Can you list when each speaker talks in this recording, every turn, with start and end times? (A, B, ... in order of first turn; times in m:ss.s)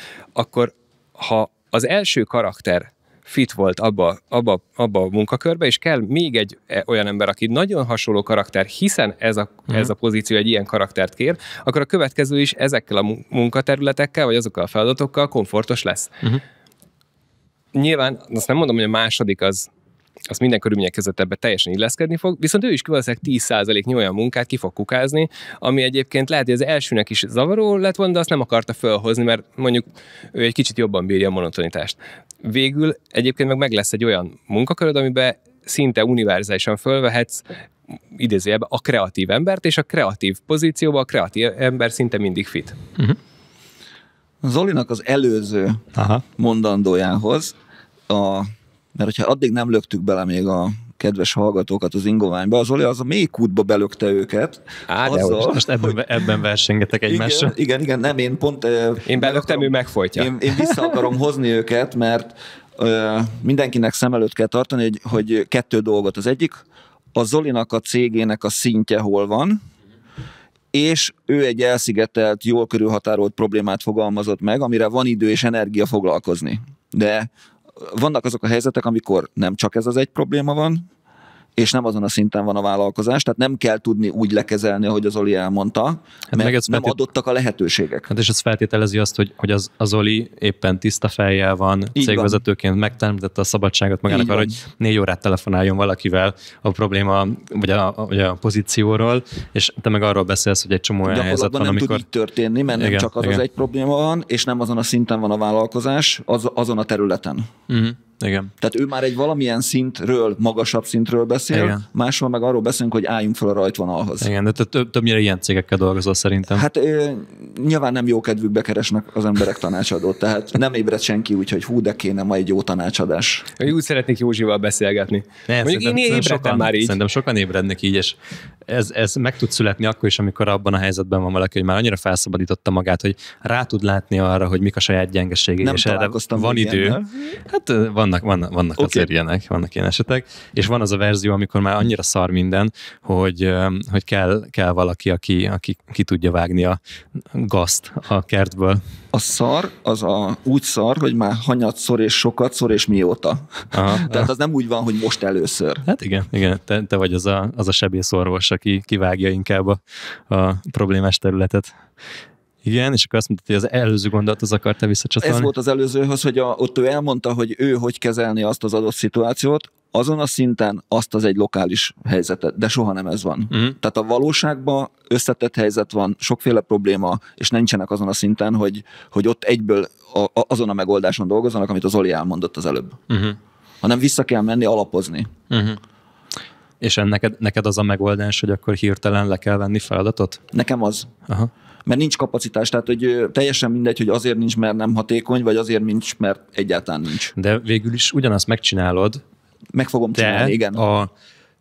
0:00.3-0:16.1 A
0:17.7-0:19.7 A
0:20.3-0:37.4 A
0:38.1-0:42.8 A
0:44.4-0:47.6 B
0:46.0-0:46.2 C
0:48.1-0:56.0 B
0:54.9-0:55.5 A
0:55.4-0:57.6 C
0:57.1-1:06.6 B
0:59.1-1:00.9 A
1:07.1-1:09.6 B
1:10.7-1:17.3 B
1:17.8-1:20.9 B
1:21.6-1:28.1 B
1:26.3-1:27.0 C
1:28.1-1:42.0 C
1:32.0-1:32.4 B
1:34.1-1:34.6 B
1:41.0-1:47.5 B
1:42.7-1:43.4 C
1:47.7-1:48.5 C
1:48.6-1:54.3 B
1:51.5-1:51.8 C
1:54.2-1:56.6 C
1:56.5-2:03.5 B
2:03.6-2:07.0 A
2:05.5-2:26.8 C
2:15.6-2:17.1 B
2:18.8-2:19.0 B
2:27.3-2:28.8 C
2:29.1-2:35.9 B
2:33.7-2:34.3 C
2:35.9-2:41.8 C
2:42.6-2:45.5 C
2:45.2-3:03.0 B
3:03.1-3:03.4 C
3:03.8-3:05.3 B
3:05.5-3:05.8 C
3:06.8-3:10.4 C
3:10.5-3:11.1 B
3:11.9-3:17.3 B
3:17.4-3:19.2 C
3:19.7-3:20.8 B
3:20.1-3:21.1 C